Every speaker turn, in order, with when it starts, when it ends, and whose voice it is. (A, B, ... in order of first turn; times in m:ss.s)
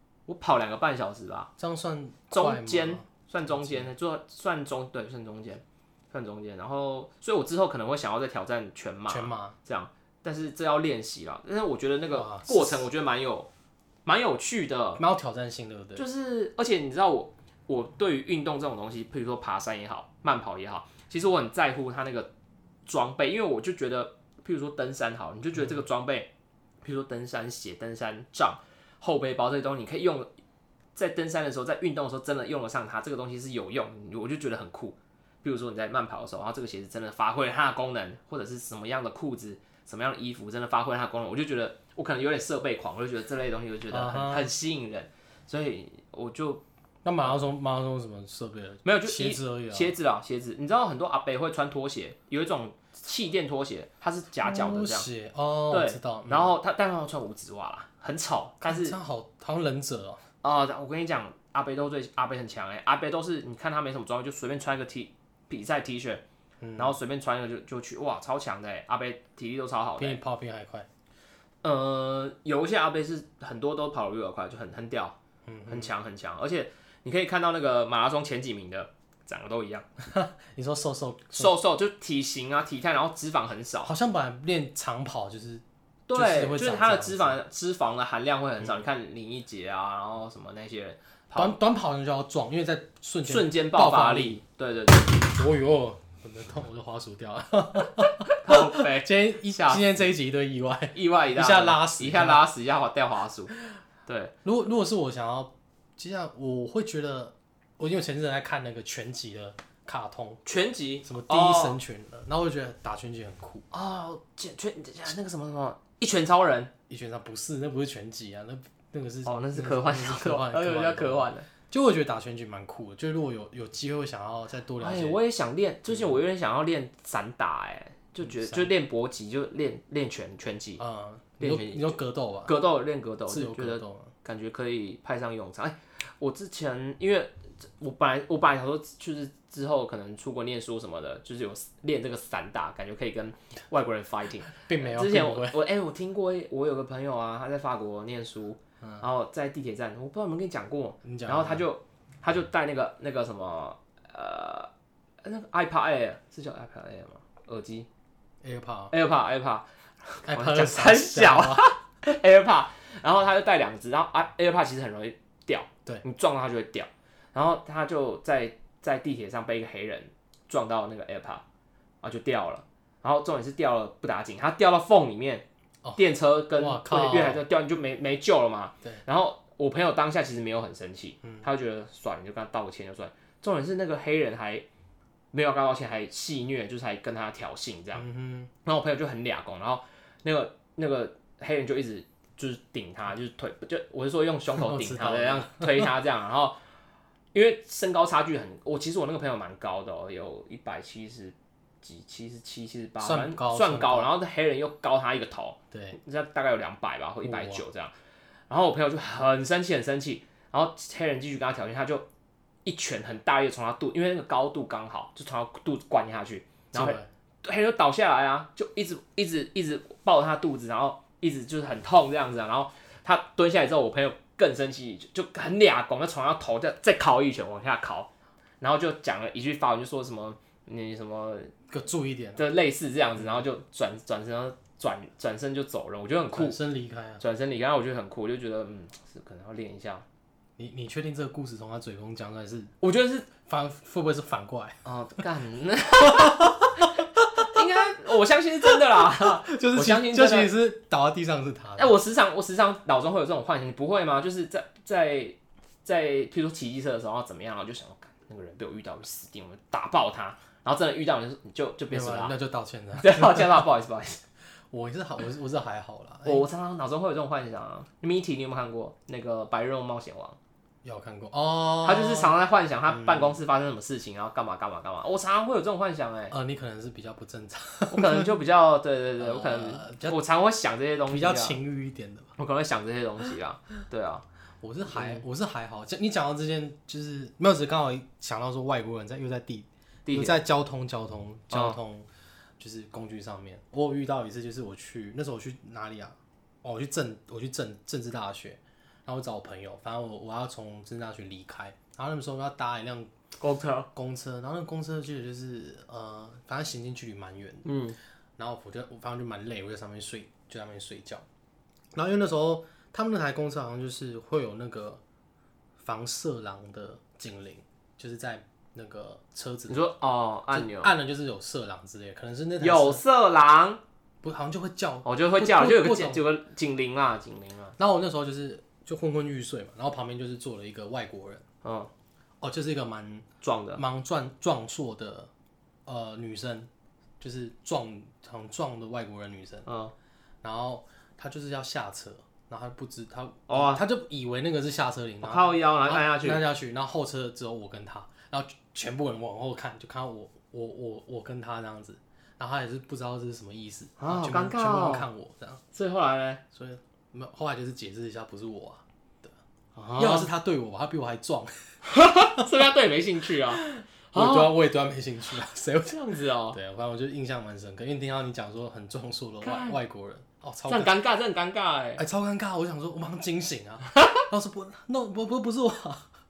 0:00.3-0:01.5 A
0:01.6-0:03.9 B
0:02.3-0:13.5 A
0:09.1-0:09.6 B
0:12.1-0:12.9 B
0:14.1-0:15.0 A
0:15.0-0:16.0 B
0:16.0-0:22.3 A
0:22.9-0:26.3 A
0:26.8-0:30.3 A
0:31.0-0:46.6 A
0:43.9-0:44.5 B
0:47.0-0:49.9 B
0:48.8-0:55.1 A
0:54.4-0:56.5 B
0:55.7-0:59.0 A
0:58.6-1:00.2 B
1:00.4-1:06.2 A
1:06.6-1:07.0 B
1:06.8-1:10.2 A
1:10.0-1:10.9 B
1:11.6-1:19.9 A
1:15.5-1:15.9 B
1:20.0-1:21.6 B
1:21.4-1:23.9 A
1:23.8-1:25.6 B
1:26.1-1:31.6 A
1:26.1-1:27.4 B
1:31.4-1:34.4 B
1:33.2-1:35.3 A
1:35.1-1:42.5 B
1:38.2-1:40.0 A
1:40.9-1:43.6 A
1:44.1-1:44.3 A
1:44.4-1:50.4 B
1:50.4-1:51.8 A
1:51.0-1:53.7 B
1:53.7-1:56.7 A
1:56.9-2:05.2 B
1:59.2-2:01.5 A
2:04.8-2:10.8 A
2:08.2-2:08.7 B
2:10.8-2:12.5 B
2:11.4-2:34.7 A
2:13.3-2:14.1 B
2:24.6-2:25.6 B
2:31.0-2:31.6 B
2:35.2-2:37.9 A
2:38.4-2:38.9 B
2:38.9-2:51.4 A
2:40.3-2:41.7 B
2:52.0-2:55.4 A
2:56.0-3:04.7 A
2:56.6-2:57.4 B
3:05.3-3:08.1 A
3:08.0-3:08.5 B
3:08.6-3:16.6 A
3:14.6-3:15.9 B
3:17.3-3:27.9 A
3:23.0-3:24.1 B
3:25.7-3:26.0 B
3:27.2-3:27.6 B
3:28.5-3:32.1 A
3:32.6-3:51.5 A
3:36.7-3:37.1 B
3:51.7-3:52.4 B
3:52.4-3:56.6 A
3:56.3-3:57.2 B
3:57.2-4:00.0 A
4:00.6-4:02.7 B
4:02.8-4:03.3 A
4:03.3-4:04.8 B
4:04.8-4:10.5 A
4:06.1-4:07.6 B
4:09.1-4:11.9 B
4:11.8-4:22.4 A
4:21.9-4:23.6 B
4:23.0-4:24.2 A
4:24.7-4:26.5 B
4:26.2-4:30.4 A
4:30.8-4:32.3 B
4:31.8-4:36.3 A
4:32.9-4:33.4 B
4:36.3-4:38.4 B
4:37.9-4:41.6 A
4:39.2-4:40.2 B
4:41.1-4:42.3 B
4:42.4-4:44.2 A
4:44.6-4:52.1 B
4:44.9-4:45.2 A
4:50.1-4:50.4 A
4:51.5-4:51.8 A
4:52.6-5:03.1 B
5:03.4-5:03.9 A
5:03.9-5:07.7 B
5:07.6-5:08.0 A
5:08.4-5:11.2 B
5:12.0-5:15.0 B
5:15.8-5:19.9 B
5:19.7-5:20.9 A
5:20.5-5:23.0 B
5:22.6-5:23.8 A
5:24.2-5:26.2 B
5:25.0-5:27.8 A
5:27.8-5:31.4 B
5:31.6-5:31.9 A
5:32.4-5:35.3 B
5:33.4-5:33.8 A
5:35.9-5:36.7 B
5:37.2-5:39.7 B
5:39.7-5:39.9 A
5:40.4-5:55.6 B
5:43.5-5:43.8 A
5:45.2-5:46.4 A
5:54.0-5:55.1 A
5:55.7-5:56.4 A
5:56.5-5:59.3 B
5:59.8-6:00.3 A
6:00.0-6:01.5 B
6:01.9-6:04.5 A
6:03.6-6:10.9 B
6:05.9-6:06.6 A
6:09.4-6:09.8 A
6:10.7-6:12.0 A
6:12.0-6:16.1 B
6:13.9-6:14.2 A